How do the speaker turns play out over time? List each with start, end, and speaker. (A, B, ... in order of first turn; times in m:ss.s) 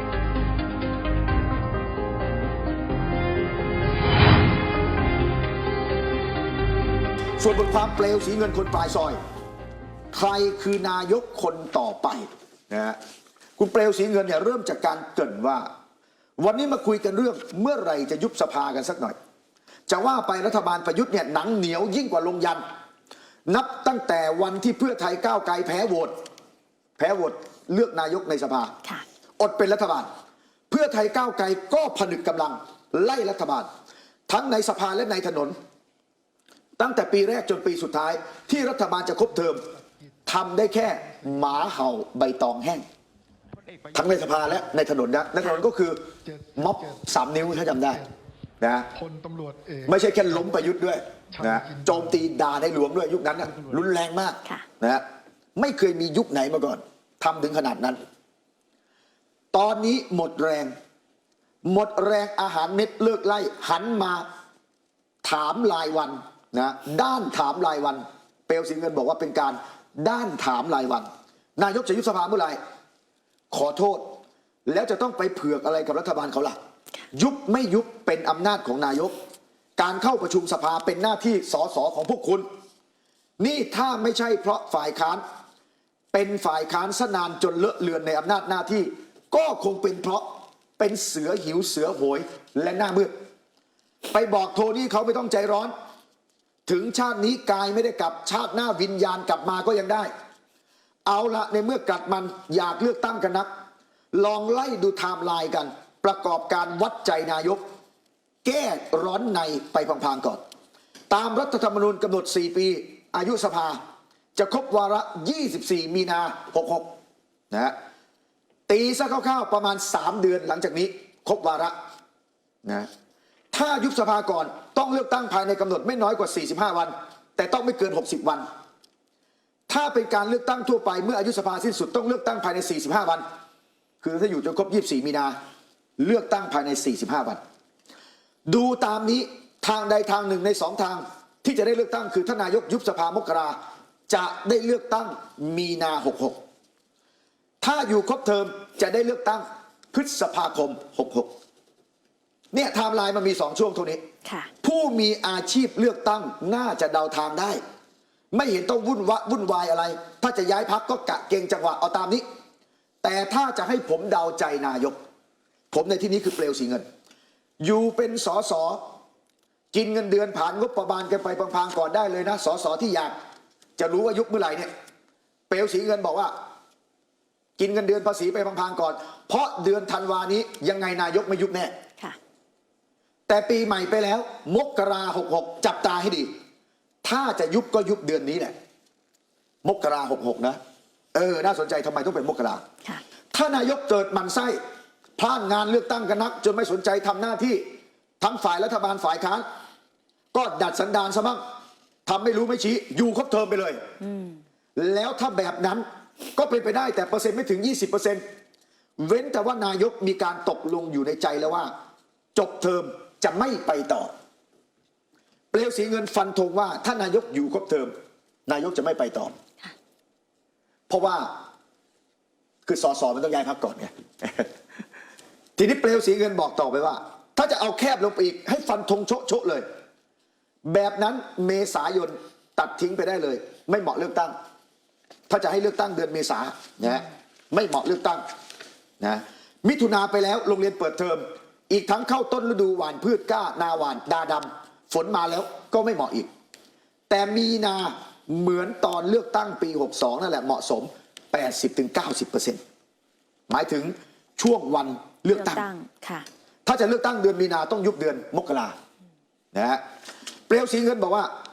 0:07.4-0:09.2 A
0:10.1-0:13.0 A
0:13.6-0:15.7 A
0:16.4-0:19.2 A
0:19.9-0:22.6 A
0:23.5-0:26.1 A
0:27.0-0:28.7 A
0:29.4-0:30.1 A
0:30.7-0:33.7 A
0:34.3-0:35.5 A
0:36.8-0:39.6 A
0:39.7-0:40.1 B
0:40.3-0:42.8 A
0:40.8-0:41.8 B
0:43.7-0:44.3 B
0:43.9-0:46.0 A
0:45.4-0:45.6 C
0:46.2-0:48.2 B
0:46.6-0:48.0 A
0:48.6-0:48.9 A
0:48.9-0:50.7 B
0:49.9-0:55.0 A
0:51.3-0:52.4 B
0:53.5-0:53.9 B
0:55.6-0:58.0 A
0:59.5-1:00.7 A
1:01.6-1:04.2 A
1:05.2-1:12.6 A
1:13.5-1:16.6 A
1:17.1-1:19.1 A
1:19.8-1:22.5 A
1:23.4-1:25.2 A
1:26.1-1:33.1 A
1:34.1-1:35.7 A
1:36.7-1:40.1 A
1:41.1-1:43.5 A
1:44.1-1:47.6 A
1:48.4-1:50.4 A
1:51.1-1:53.8 A
1:54.4-1:56.9 A
1:58.7-2:01.8 A
2:03.5-2:08.5 A
2:09.7-2:13.2 A
2:14.0-2:15.4 A
2:16.0-2:17.4 A
2:18.5-2:23.6 A
2:24.1-2:26.4 A
2:27.6-2:31.3 A
2:32.5-2:34.0 A
2:34.2-2:34.5 C
2:34.6-2:37.6 A
2:38.3-2:42.2 A
2:43.0-2:45.0 A
2:45.7-2:46.8 A
2:47.6-2:48.8 A
2:49.7-2:53.2 A
2:53.8-2:54.7 A
2:55.5-2:56.3 A
2:57.6-3:01.7 A
3:03.3-3:06.3 A
3:07.0-3:08.5 A
3:09.6-3:10.6 A
3:11.1-3:12.6 A
3:13.3-3:14.6 A
3:15.2-3:17.6 A
3:18.2-3:19.4 A
3:20.3-3:21.4 A
3:22.1-3:23.8 A
3:24.0-3:24.4 C
3:24.8-3:25.8 A
3:26.4-3:28.2 A
3:29.0-3:31.7 A
3:32.4-3:34.1 A
3:35.5-3:37.9 A
3:38.5-3:39.3 A
3:40.9-3:41.3 A
3:42.7-3:44.5 A
3:45.6-3:49.6 A
3:50.6-3:54.3 A
3:55.3-3:58.2 A
3:59.0-4:06.3 A
4:07.1-4:12.6 A
4:13.5-4:15.7 A
4:15.3-4:16.3 C
4:16.7-4:18.8 A
4:19.5-4:19.8 A
4:20.5-4:21.3 A